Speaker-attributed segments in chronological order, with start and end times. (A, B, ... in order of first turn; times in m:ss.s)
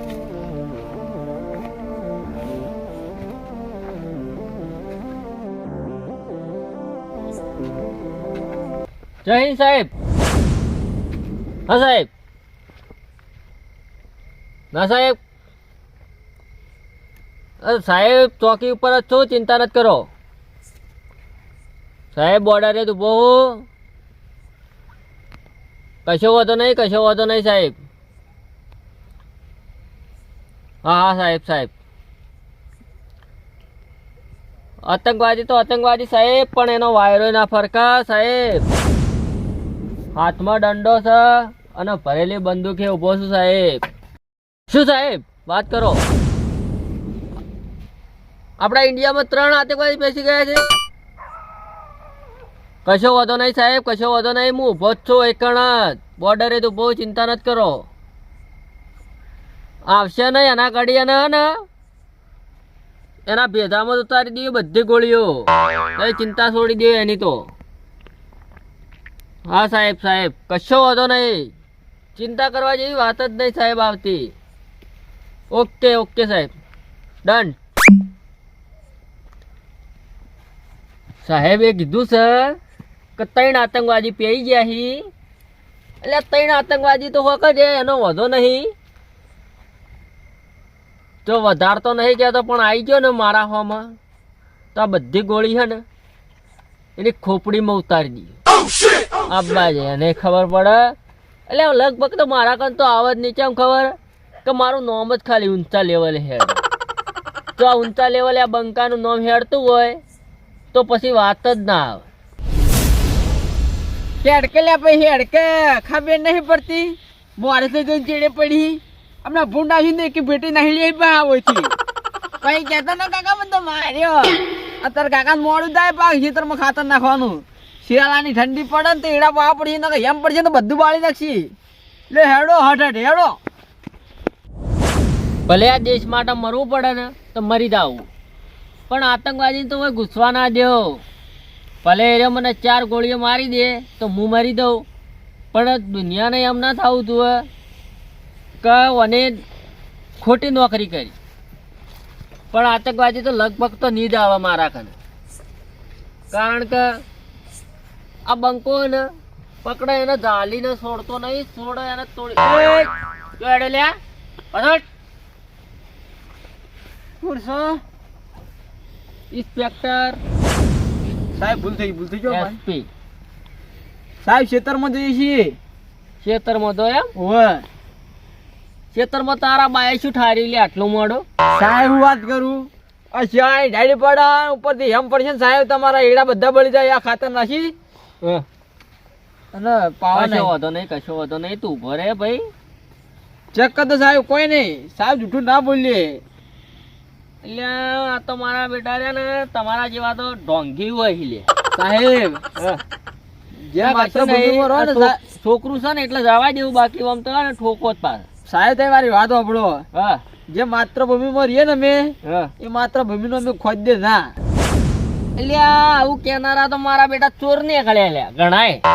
0:09.2-0:09.9 A
0:11.7-0:12.1 A
0:14.7-0:15.2 A
0:17.6-0:20.1 A
0:22.1-0:23.7 A
0:26.1-0:27.8 A
0:30.8-0:31.7 A
0:34.8-0:38.7 A
0:40.1-0:43.9 A
0:44.7-0:46.0 A
0:48.6-0:50.7 A
0:52.8-0:57.9 A
0:59.9-1:01.6 A
1:03.3-1:07.5 A
1:09.5-1:11.5 A
1:12.2-1:14.3 A
1:15.5-1:16.5 A
1:17.2-1:17.6 A
1:21.2-1:22.6 A
1:23.2-1:25.1 A
1:26.0-1:28.7 A
1:31.2-1:34.0 A
1:34.7-1:35.8 A
1:37.0-1:38.4 A
1:39.3-1:41.0 A
1:41.5-1:46.6 A
1:47.6-1:50.0 A
1:50.7-1:52.0 A
1:54.2-2:01.7 B
2:02.4-2:11.5 B
2:12.1-2:13.4 B
2:15.5-2:18.1 A
2:18.9-2:21.0 A
2:21.8-2:24.9 A
2:25.5-2:27.5 A
2:28.6-2:29.4 A
2:30.2-2:31.2 A
2:32.5-2:34.9 A
2:36.3-2:37.0 A
2:38.3-2:39.1 A
2:39.6-2:44.0 A
2:44.5-2:44.8 A
2:47.2-2:47.8 B
2:49.3-2:50.2 A
2:51.4-2:52.6 B
2:52.3-2:52.9 A
2:54.2-2:55.6 B
2:56.2-2:57.1 A
2:57.2-2:57.7 B
2:58.9-3:01.2 A
3:01.5-3:07.7 B
3:09.5-3:10.5 B
3:10.1-3:12.5 A
3:13.5-3:16.2 B
3:17.4-3:21.5 A
3:21.7-3:22.4 B
3:23.6-3:25.2 B
3:23.8-3:28.3 A
3:28.5-3:29.8 B
3:29.9-3:30.2 A
3:30.5-3:34.4 B
3:32.2-3:32.5 A
3:35.4-3:38.8 A